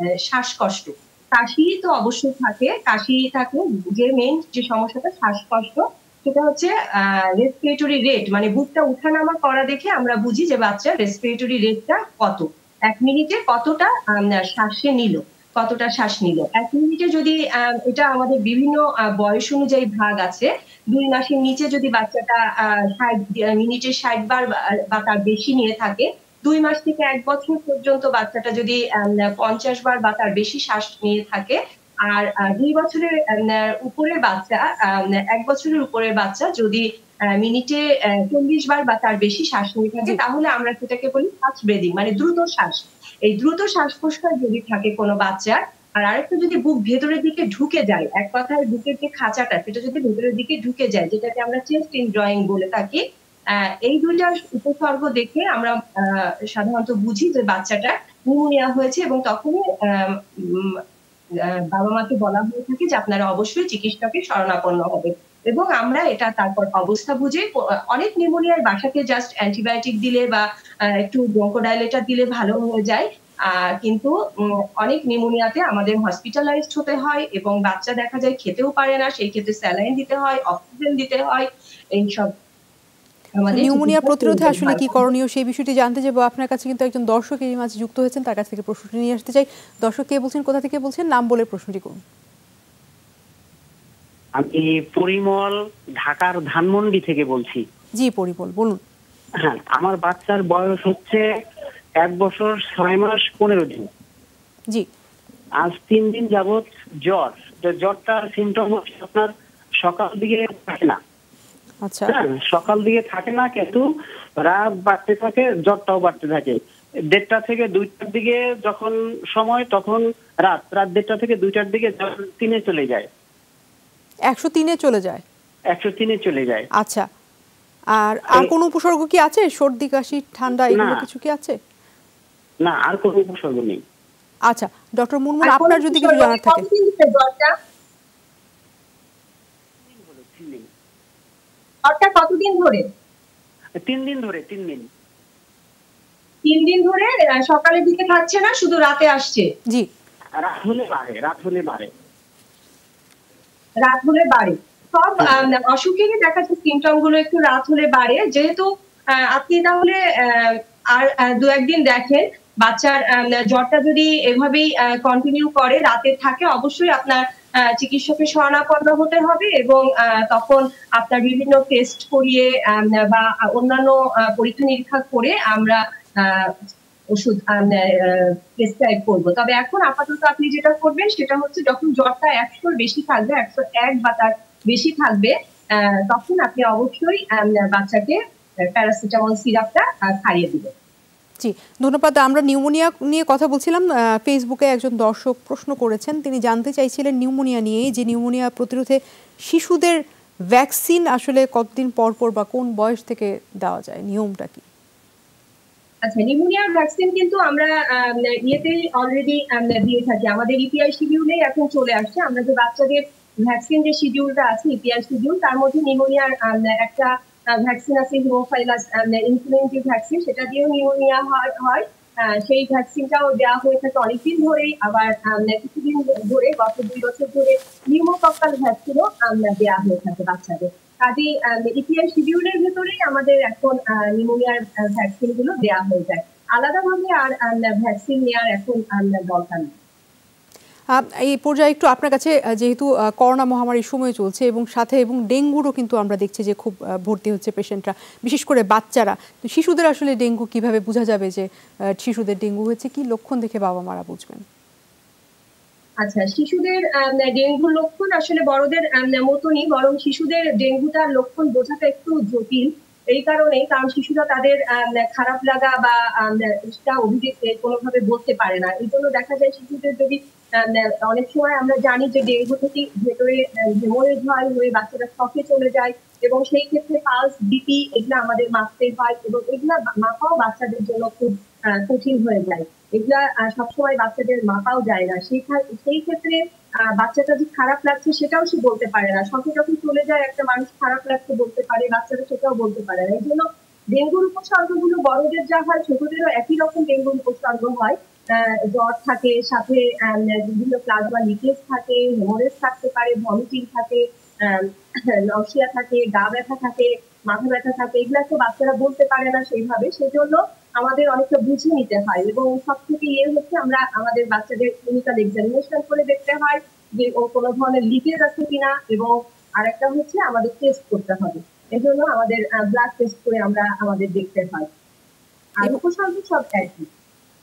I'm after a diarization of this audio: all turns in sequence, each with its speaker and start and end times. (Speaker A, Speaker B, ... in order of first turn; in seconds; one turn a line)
Speaker A: 0.3-31.6
Speaker A: 32.1-36.8
Speaker A: 37.3-53.0
Speaker A: 53.6-60.8
Speaker A: 61.7-70.4
Speaker A: 71.0-74.2
Speaker A: 74.8-82.3
Speaker A: 83.4-85.0
Speaker B: 83.5-92.0
Speaker C: 94.3-97.6
Speaker B: 98.0-98.8
Speaker C: 99.4-101.2
Speaker C: 102.0-103.9
Speaker C: 105.6-109.3
Speaker C: 109.8-111.0
Speaker B: 111.8-112.1
Speaker C: 112.1-116.6
Speaker C: 117.1-123.1
Speaker B: 124.3-125.2
Speaker C: 125.7-126.7
Speaker B: 126.8-127.0
Speaker B: 128.0-131.6
Speaker C: 130.7-131.1
Speaker C: 132.6-133.8
Speaker B: 134.5-136.6
Speaker A: 135.4-137.5
Speaker C: 139.8-140.7
Speaker A: 141.8-142.8
Speaker C: 143.8-144.8
Speaker A: 146.4-149.5
Speaker C: 150.4-151.9
Speaker A: 153.8-188.2
Speaker A: 188.7-190.7
Speaker B: 191.4-200.0
Speaker B: 200.5-204.6
Speaker A: 206.1-239.7
Speaker B: 240.9-251.4
Speaker B: 252.0-254.4
Speaker A: 256.0-286.4
Speaker A: 286.9-304.6
Speaker A: 305.3-324.7
Speaker A: 325.6-326.9